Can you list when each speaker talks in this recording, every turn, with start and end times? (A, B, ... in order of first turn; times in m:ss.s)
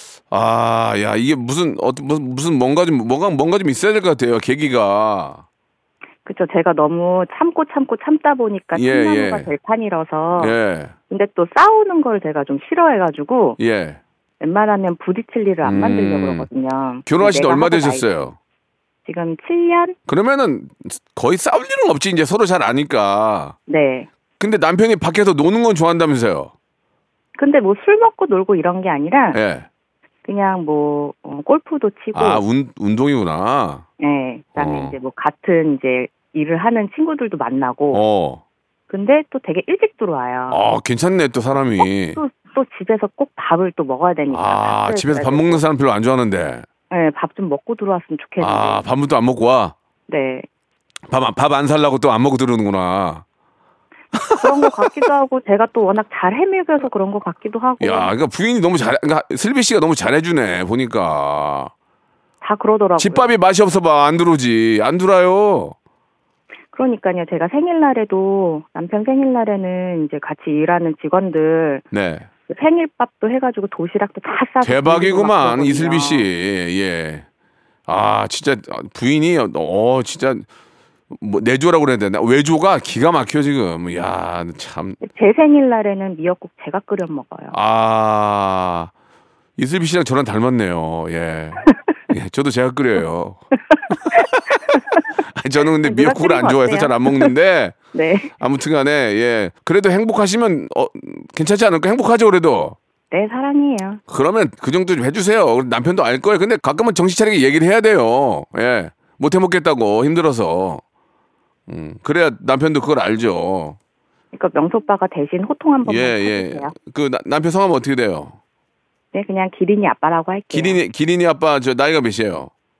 0:00.3-0:05.4 A
0:06.2-0:10.6 B
0:08.7-0:09.5 A
0:10.4-0:10.9 A
0:11.1-0:13.6 B
0:13.6-0:14.0 A
0:14.4-0:18.0 B
0:15.6-0:16.5 A
0:17.0-0:18.4 A
0:19.0-0:20.0 B
0:20.1-0:23.6 A
0:23.7-0:24.1 B
0:24.4-0:26.5 A
0:27.4-0:29.4 B
0:29.3-0:29.7 A
0:30.2-0:32.4 B
0:32.1-0:33.8 A
0:34.0-0:38.0 B
0:34.6-0:34.9 A
0:37.9-0:38.4 A
0:38.9-0:40.6 B
0:40.5-0:42.2 A
0:41.8-0:45.6 B
0:44.3-0:46.6 A
0:46.9-0:48.8 B
0:48.4-0:49.7 A
0:50.1-0:50.4 B
0:51.1-0:53.2 A
0:54.1-0:55.0 A
0:54.4-0:58.1 B
0:57.8-1:01.7 A
1:02.4-1:03.3 B
1:03.0-1:05.7 A
1:06.7-1:11.8 B
1:11.9-1:12.3 A
1:12.5-1:16.2 B
1:14.6-1:17.2 A
1:17.9-1:20.5 A
1:21.1-1:25.0 A
1:25.0-1:27.6 B
1:27.5-1:28.9 A
1:29.6-1:37.8 A
1:33.7-1:35.0 B
1:35.8-1:37.3 B
1:37.9-1:38.3 B
1:38.4-1:42.8 A
1:43.1-1:44.0 B
1:44.1-1:50.8 A
1:51.7-1:53.8 A
1:54.3-1:56.7 B
1:55.8-1:58.3 A
1:59.1-2:00.8 B
2:00.5-2:02.5 A